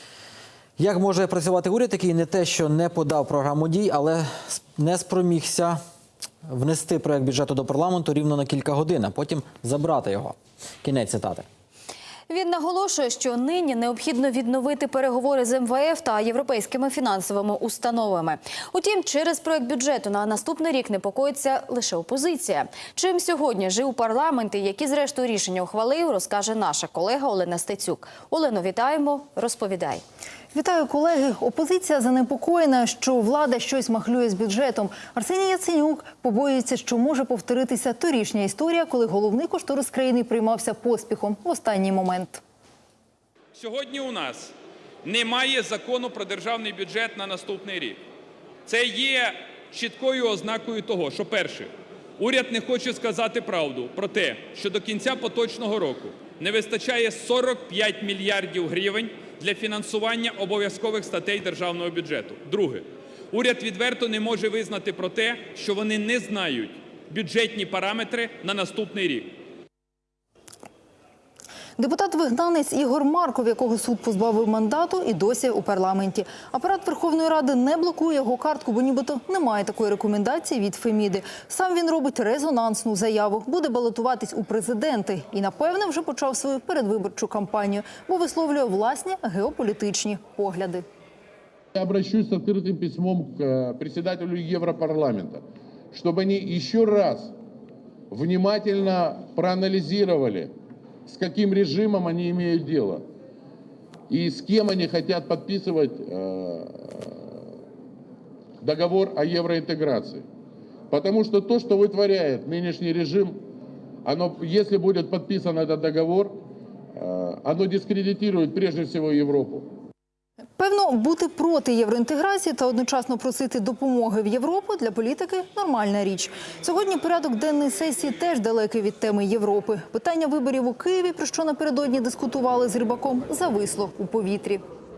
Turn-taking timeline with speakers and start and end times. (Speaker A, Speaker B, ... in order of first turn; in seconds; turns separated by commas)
Speaker A: 0.8-5.8, Speaker A: 6.5-11.4, Speaker B: 12.3-30.0, Speaker C: 30.5-42.4, Speaker D: 43.5-44.5, Speaker D: 45.0-48.0, Speaker D: 48.6-69.3, Speaker C: 71.8-90.8, Speaker E: 91.7-97.3, Speaker E: 98.1-100.5, Speaker E: 101.0-103.0, Speaker E: 104.1-107.2, Speaker E: 108.6-110.2, Speaker E: 110.9-113.4, Speaker E: 114.0-116.4, Speaker E: 116.9-119.7, Speaker C: 120.6-134.6